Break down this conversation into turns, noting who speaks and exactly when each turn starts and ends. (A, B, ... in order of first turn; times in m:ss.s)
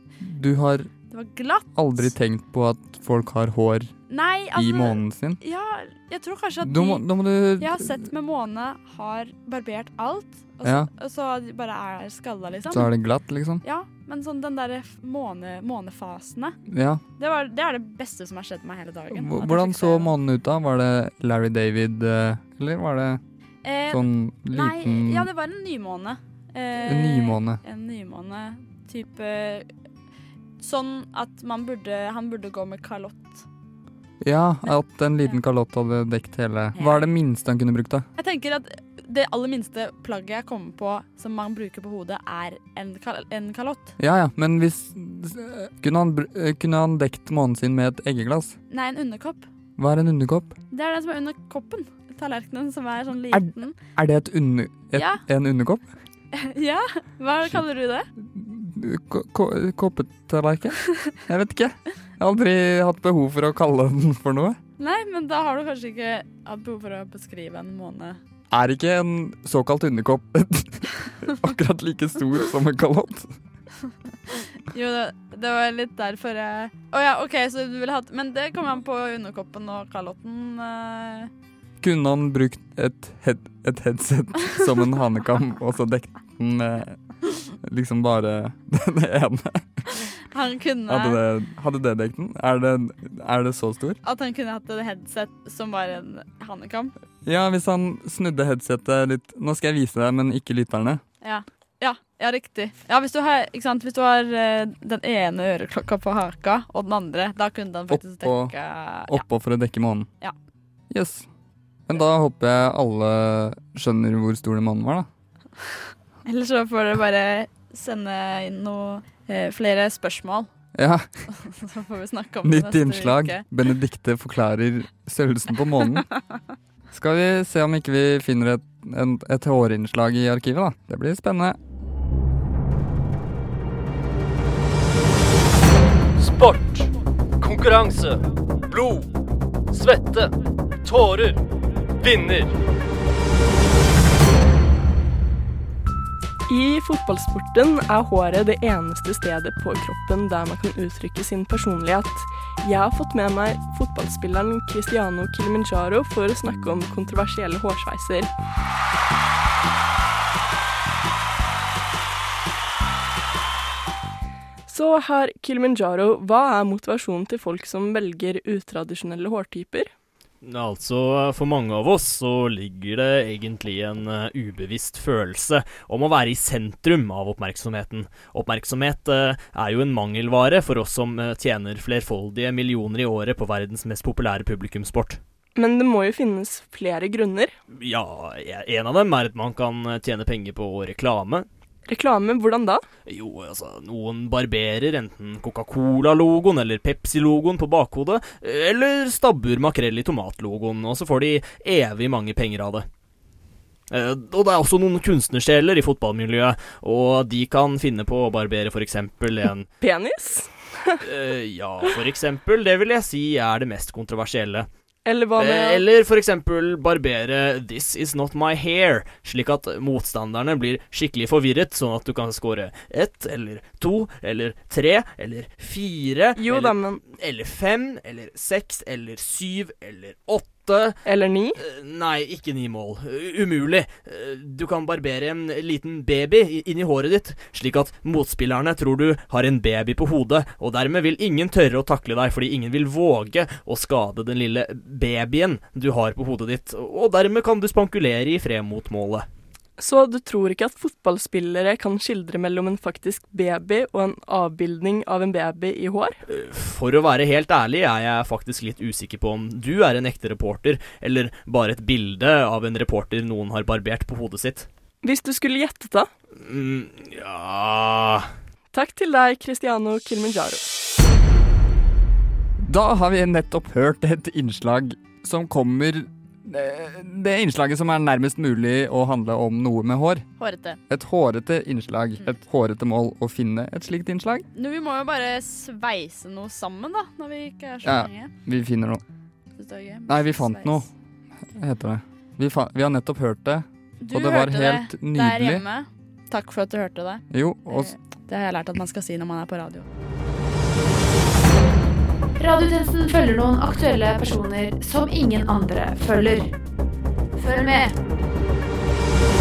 0:00.2-0:00.9 A
0:01.1-0:02.1 B
0:01.8-0:03.9 A
0:04.1-0:07.0 B
0:04.6-0:05.4 A
0:06.6-0:08.0 A
0:07.6-0:12.9 B
0:12.7-0:13.6 A
0:13.6-0:16.6 B
0:16.7-0:17.0 A
0:17.2-0:20.1 B
0:19.1-0:23.2 A
0:23.6-0:29.7 B
0:23.9-0:25.3 A
0:26.8-0:27.6 A
0:30.6-0:33.5 B
0:34.2-0:38.1 A
0:36.8-0:37.1 B
0:38.2-0:44.0 B
0:44.0-0:48.6 A
0:48.7-0:49.5 B
0:49.8-0:50.6 A
0:50.7-0:53.8 B
0:53.3-0:55.9 A
0:54.9-0:55.2 B
0:56.3-0:58.1 B
0:58.2-1:04.6 A
1:04.8-1:08.2 B
1:08.5-1:13.4 A
1:14.3-1:21.3 B
1:21.8-1:27.0 A
1:27.6-1:29.7 A
1:30.2-1:31.2 B
1:30.9-1:34.0 A
1:34.0-1:36.9 B
1:37.2-1:41.0 A
1:41.2-1:49.2 B
1:47.9-1:50.1 A
1:50.9-1:51.3 A
1:51.9-1:55.1 A
1:56.3-2:00.5 B
2:00.8-2:01.1 A
2:01.3-2:03.4 B
2:02.4-2:06.1 A
2:06.9-2:11.6 A
2:16.2-2:19.1 C
2:19.7-2:20.3 C
2:20.8-2:21.4 C
2:22.0-2:22.5 C
2:26.5-2:38.3 D
2:44.7-2:49.9 D
2:50.4-3:05.2 E
3:05.6-3:07.6 D
3:07.7-3:11.5 E
3:11.9-3:12.8 D
3:13.1-3:22.9 E
3:23.9-3:29.7 E
3:29.8-3:31.0 D
3:31.0-3:34.7 E
3:35.0-3:35.8 D
3:35.4-3:51.0 E
3:46.4-3:47.0 D
3:51.0-3:51.6 D
3:51.6-4:09.3 E
4:09.8-4:16.2 D
4:16.3-4:24.7 E
4:25.0-4:26.1 D
4:26.4-4:28.3 E
4:28.7-4:30.6 D
4:32.6-4:40.2 A
4:40.4-4:40.8 B
4:40.9-4:44.5 A
4:44.6-4:48.3 B
4:47.8-4:49.0 A
4:49.6-4:50.8 B
4:50.1-4:50.9 A
4:51.5-4:55.6 A
4:54.0-4:59.8 B
4:57.3-4:57.9 A
5:02.4-5:06.5 F
5:07.4-5:07.9 F